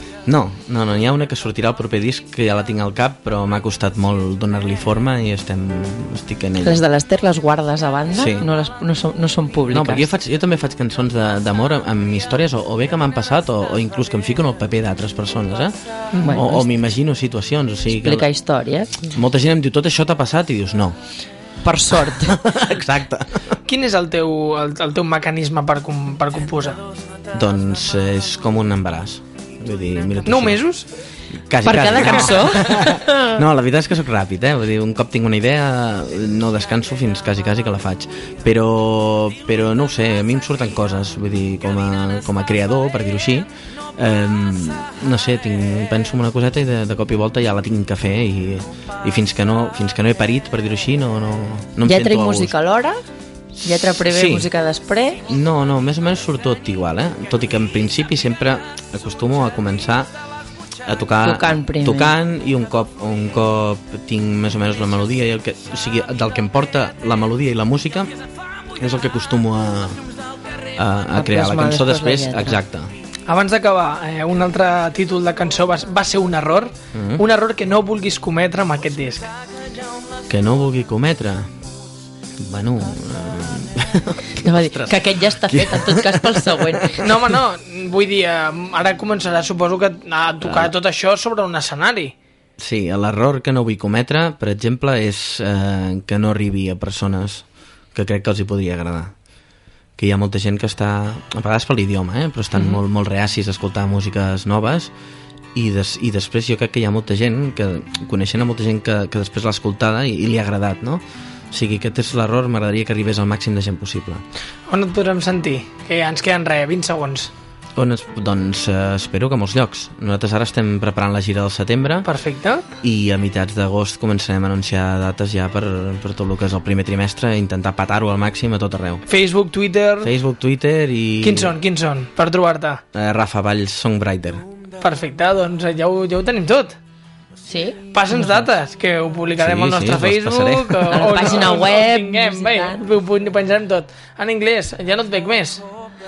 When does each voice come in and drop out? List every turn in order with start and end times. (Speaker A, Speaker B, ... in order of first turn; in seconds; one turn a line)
Speaker A: 0.2-6.8
Speaker B: 6.6-10.1
Speaker A: 8.1-8.5
Speaker A: 9.7-18.3
Speaker B: 16.2-16.7
Speaker B: 17.9-19.0
Speaker A: 19.0-20.9
Speaker B: 21.6-22.4
Speaker A: 22.0-23.4
Speaker C: 23.7-26.8
Speaker A: 27.3-30.6
Speaker C: 30.2-30.9
Speaker A: 31.5-52.5
Speaker B: 31.6-33.4
Speaker C: 31.9-32.9
Speaker B: 51.8-53.0
Speaker B: 53.6-55.2
Speaker A: 54.0-54.5
Speaker A: 55.3-60.1
Speaker A: 60.9-68.1
Speaker B: 61.2-62.1
Speaker A: 68.8-70.0
Speaker A: 70.8-72.9
Speaker B: 71.1-72.6
Speaker C: 73.3-79.3
Speaker A: 76.9-77.2
Speaker A: 80.3-81.5
Speaker A: 82.4-87.1
Speaker B: 84.4-87.0
Speaker C: 87.0-92.1
Speaker A: 90.4-90.7
Speaker A: 92.6-99.1
Speaker A: 100.0-104.9
Speaker A: 105.5-114.2
Speaker C: 114.7-117.3
Speaker A: 117.8-122.1
Speaker C: 122.1-122.7
Speaker A: 122.8-129.0
Speaker C: 129.1-130.1
Speaker A: 130.0-131.6
Speaker C: 131.2-132.8
Speaker A: 132.9-134.4
Speaker C: 134.8-136.8
Speaker B: 137.5-138.4
Speaker C: 137.9-145.6
Speaker A: 139.4-141.4
Speaker B: 140.9-142.8